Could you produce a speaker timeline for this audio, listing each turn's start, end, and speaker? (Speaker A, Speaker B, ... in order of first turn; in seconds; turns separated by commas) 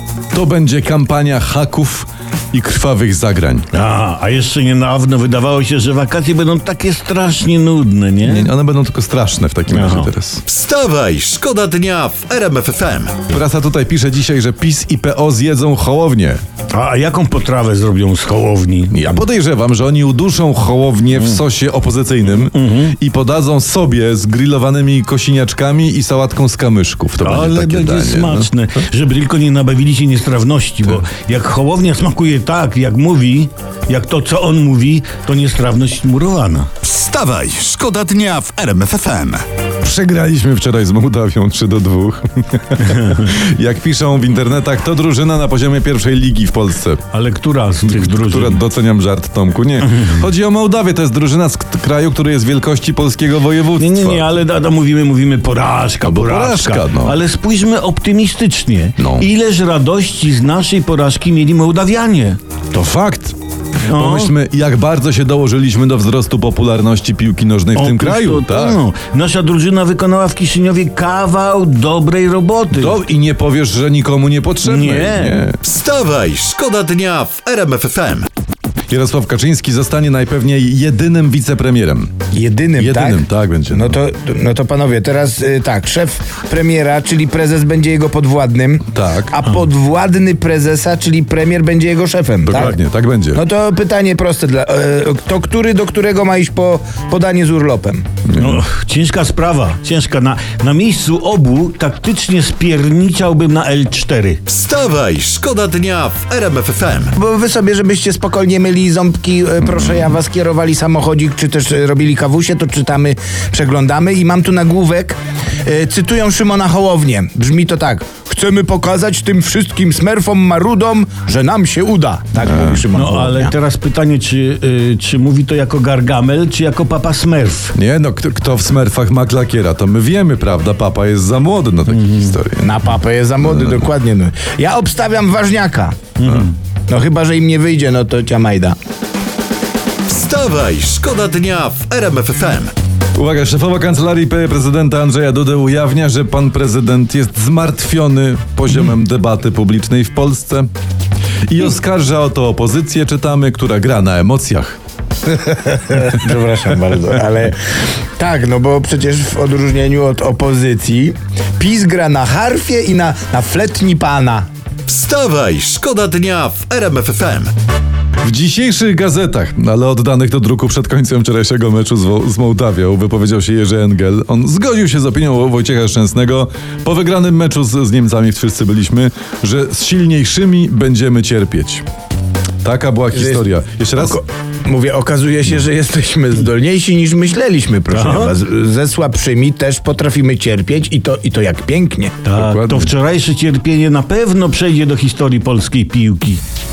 Speaker A: 0.3-3.7, Speaker B: 3.7-8.5, Speaker A: 8.2-10.4, Speaker B: 9.7-10.1, Speaker C: 10.4-13.2, Speaker A: 13.3-16.4, Speaker B: 16.7-19.1, Speaker A: 18.9-28.5, Speaker B: 21.1-21.4, Speaker B: 22.4-22.9, Speaker B: 27.2-36.7, Speaker C: 36.8-39.4, Speaker A: 39.8-47.0, Speaker B: 42.8-43.3, Speaker B: 47.1-48.6, Speaker A: 47.8-54.3, Speaker B: 53.8-62.4, Speaker A: 56.0-57.2, Speaker A: 59.0-59.3, Speaker A: 62.7-63.4, Speaker B: 63.9-64.3, Speaker A: 63.9-68.8, Speaker B: 67.8-73.0, Speaker A: 72.7-75.6, Speaker B: 74.6-75.4, Speaker C: 75.6-78.3, Speaker A: 78.9-82.1, Speaker D: 82.3-92.8, Speaker A: 82.8-84.0, Speaker A: 88.9-89.3, Speaker A: 92.5-93.4, Speaker D: 93.3-98.0, Speaker A: 98.3-98.6, Speaker B: 98.3-104.4, Speaker C: 104.5-107.1, Speaker D: 107.2-123.5, Speaker A: 122.4-122.8, Speaker B: 122.9-127.7, Speaker A: 127.7-132.7, Speaker D: 132.6-136.1, Speaker A: 133.4-133.9, Speaker B: 136.2-136.5, Speaker D: 136.9-138.8, Speaker C: 140.1-142.7, Speaker A: 143.1-150.7, Speaker A: 151.5-154.8, Speaker D: 155.3-157.6, Speaker D: 158.2-164.5, Speaker C: 164.9-167.5, Speaker A: 168.2-181.8, Speaker A: 182.6-184.2, Speaker D: 183.1-183.4, Speaker D: 184.0-192.2, Speaker B: 187.9-188.3, Speaker B: 192.2-196.4, Speaker A: 192.4-192.9